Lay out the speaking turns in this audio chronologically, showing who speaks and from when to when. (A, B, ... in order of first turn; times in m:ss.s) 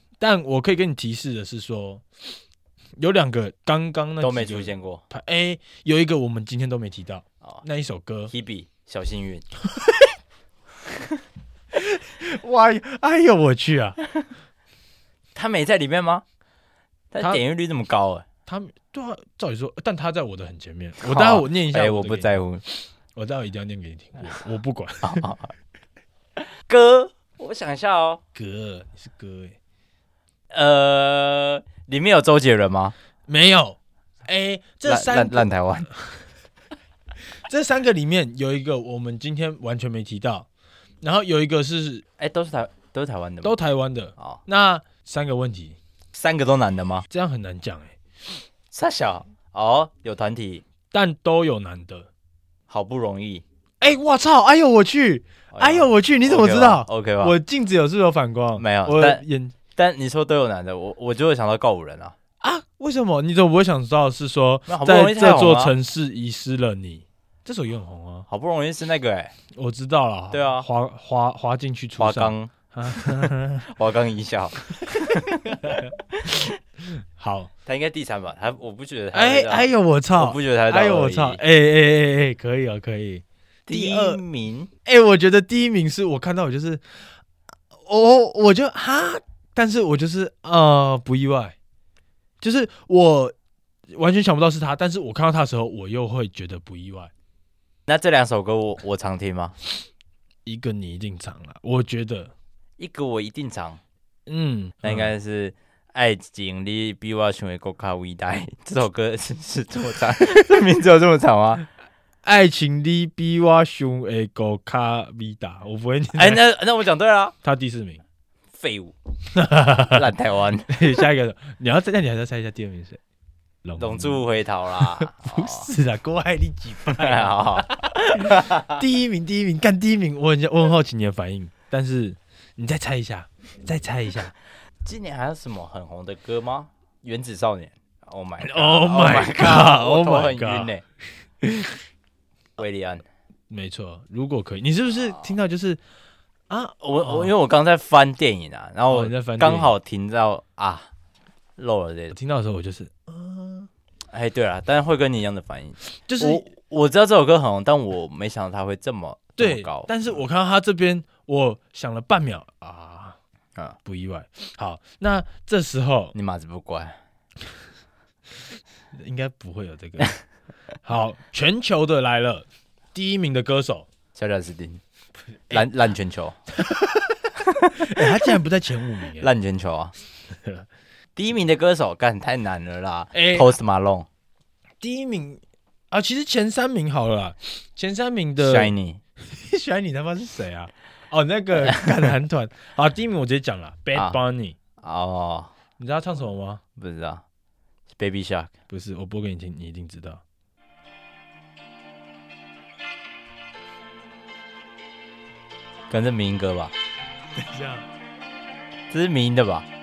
0:00.2-0:02.3 A
0:03.0-0:08.3 A
0:04.2-0:05.0 B
0:08.3-0:09.4 B
0:09.7-0:10.1 A
0:11.7-0:14.0 A
0:15.3-0:16.2 B
0:17.1-0:18.2 B
0:18.4-0:25.2 A
0:21.0-0:22.6 B
0:25.0-0:25.5 B
0:26.6-0:28.2 B
0:28.3-0:29.6 A
0:30.5-0:32.9 B
0:33.3-0:36.2 A
0:34.9-0:35.9 B
0:37.4-0:40.5 A
0:41.0-0:42.0 A
0:42.2-0:43.5 B
0:43.4-0:45.8 A
0:46.1-0:47.1 B
0:47.1-0:48.0 A
0:48.7-0:50.6 B
0:50.9-0:52.1 A
0:52.7-0:53.4 B
0:53.8-0:59.6 A
0:55.5-0:57.4 B
0:58.6-0:59.2 B
0:59.7-1:02.1 B
1:02.4-1:08.3 A
1:04.7-1:05.7 B
1:08.3-1:09.3 B
1:09.5-1:13.7 A
1:10.3-1:10.7 B
1:12.0-1:16.4 B
1:14.8-1:17.5 A
1:17.6-1:21.4 B
1:19.1-1:24.2 A
1:23.7-1:24.7 B
1:24.8-1:27.1 A
1:27.7-1:31.5 A
1:32.4-1:33.3 A
1:33.9-1:37.1 A
1:37.9-1:39.5 B
1:40.4-1:42.3 A
1:42.8-1:43.8 B
1:44.3-1:45.1 A
1:44.8-1:51.6 B
1:52.2-1:56.4 A
1:56.1-1:57.3 B
1:57.4-1:58.0 A
1:58.6-1:58.9 B
1:59.3-2:00.0 A
1:59.9-2:00.8 B
2:00.7-2:03.0 A
2:03.6-2:04.2 A
2:03.8-2:05.7 B
2:04.9-2:14.3 A
2:06.9-2:08.8 B
2:14.8-2:20.8 B
2:18.4-2:20.7 A
2:21.4-2:21.8 A
2:22.6-2:23.0 B
2:23.5-2:25.8 A
2:25.0-2:25.3 B
2:26.5-2:27.3 A
2:26.8-2:30.9 B
2:28.9-2:29.7 A
2:31.6-2:32.2 B
2:32.1-2:33.7 A
2:34.1-2:39.9 B
2:36.0-2:36.5 A
2:39.4-2:43.2 A
2:43.8-2:46.1 A
2:46.1-2:47.0 B
2:48.9-2:50.1 A
2:50.8-2:53.9 A
2:54.1-2:54.8 B
2:55.5-2:56.4 B
2:56.5-2:59.3 A
2:57.4-2:58.0 B
2:59.2-2:59.9 B
3:00.3-3:00.6 A
3:01.2-3:04.1 B
3:03.1-3:03.5 A
3:04.8-3:14.6 A
3:08.4-3:09.0 B
3:13.9-3:14.2 B
3:14.8-3:15.5 B
3:15.8-3:16.6 A
3:16.8-3:17.2 B
3:17.9-3:18.5 B
3:18.7-3:20.2 A
3:25.9-3:26.7 B
3:27.4-3:27.8 A
3:28.9-3:29.7 B